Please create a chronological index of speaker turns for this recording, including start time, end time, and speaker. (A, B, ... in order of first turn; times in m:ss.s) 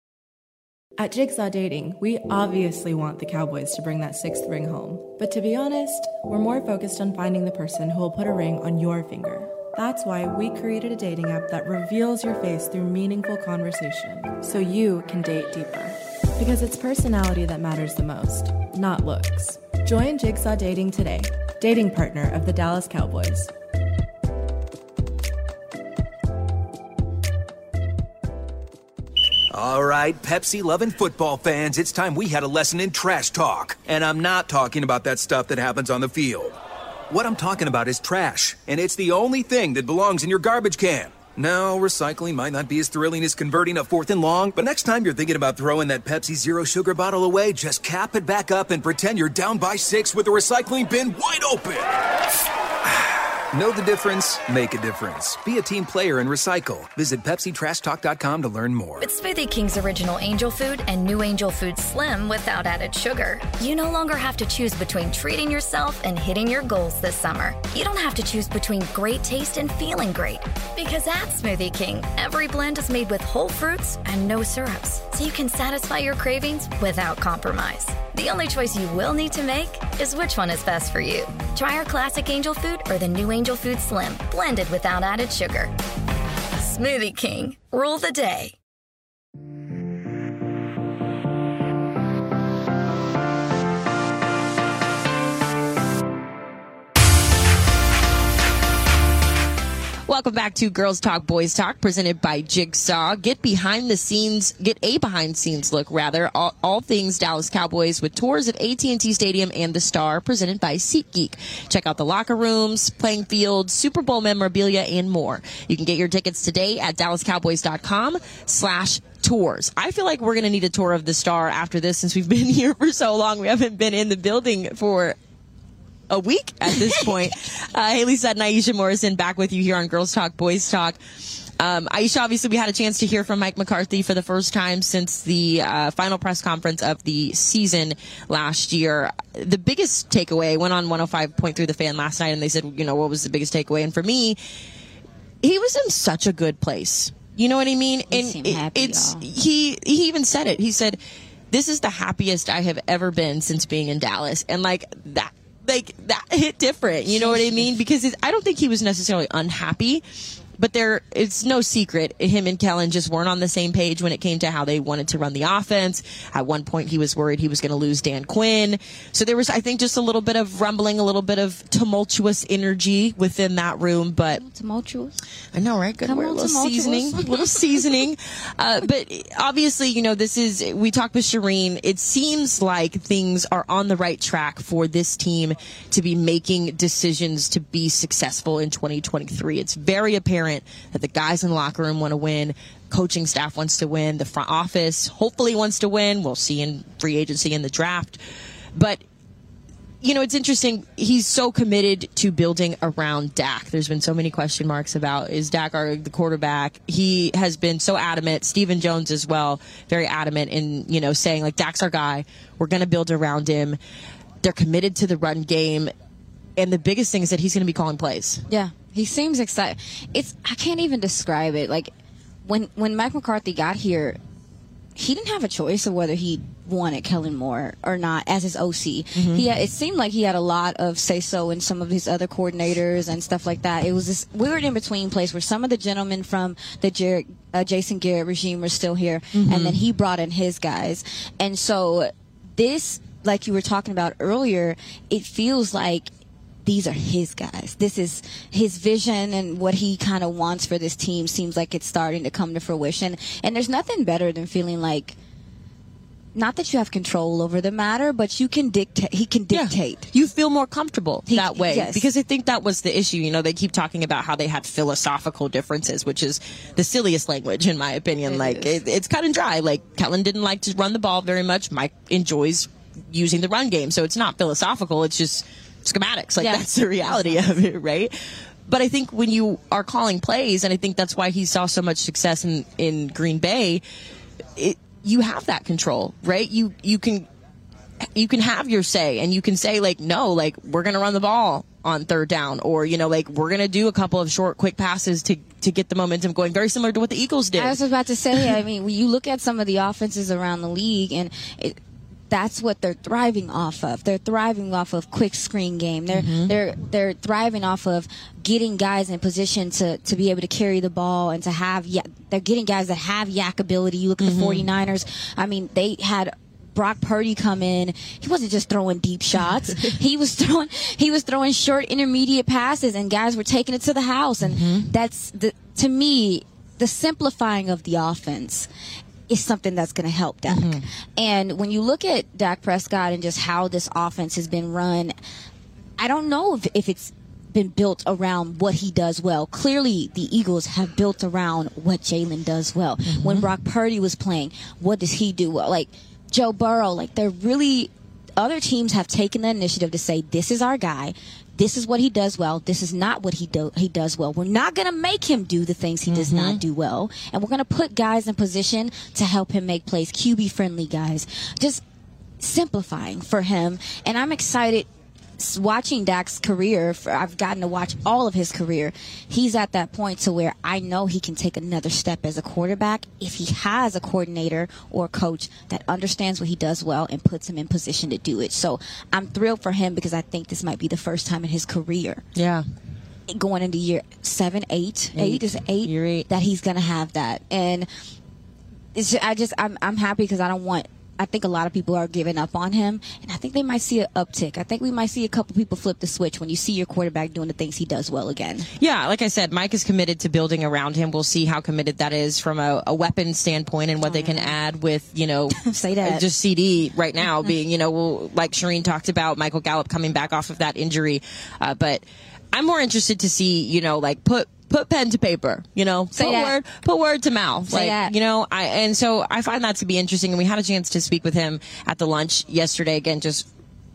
0:01.0-0:23.5 A
0:29.5-0:36.5 B
0:37.1-0:51.9 B
0:52.8-0:59.1 B
0:59.0-1:25.7 C
1:26.6-1:28.5 C
1:40.1-2:05.2 D
2:06.1-2:11.0 D
2:11.6-2:24.4 D
2:25.4-2:31.0 D
2:28.1-2:29.2 E
2:31.5-2:40.0 D
2:37.1-2:37.7 E
2:40.6-2:54.4 D
2:54.3-2:55.2 E
2:55.5-3:18.2 D
2:56.0-2:58.1 E
3:18.7-3:19.0 D
3:20.0-3:33.8 D
3:34.4-3:35.9 D
3:36.6-3:38.4 D
3:38.5-3:41.9 E
3:42.4-3:44.2 E
3:45.0-4:06.1 E
3:49.1-3:49.4 D
3:59.3-3:59.8 D
4:06.6-4:15.2 E
4:16.3-4:20.1 E
4:19.5-4:38.1 D
4:21.3-4:22.1 E
4:28.3-4:28.7 E
4:36.4-4:37.5 E
4:38.7-4:43.8 D
4:44.6-4:47.3 D
4:48.1-4:57.8 D
4:57.5-5:01.8 E
5:02.3-5:28.7 E
5:06.1-5:06.5 D
5:14.2-5:14.6 D
5:24.4-5:24.9 D
5:29.3-5:35.1 E
5:30.5-5:30.8 D
5:36.0-6:01.8 E
5:43.0-5:43.4 D
5:56.1-5:56.6 D
6:02.4-6:22.2 E
6:22.4-6:22.6 D
6:23.3-6:27.9 E
6:25.1-6:26.3 D
6:28.9-6:38.7 E
6:38.8-7:03.4 D
6:44.0-6:44.5 E
6:45.5-6:46.2 E
6:56.1-6:56.6 E
6:57.7-6:58.1 E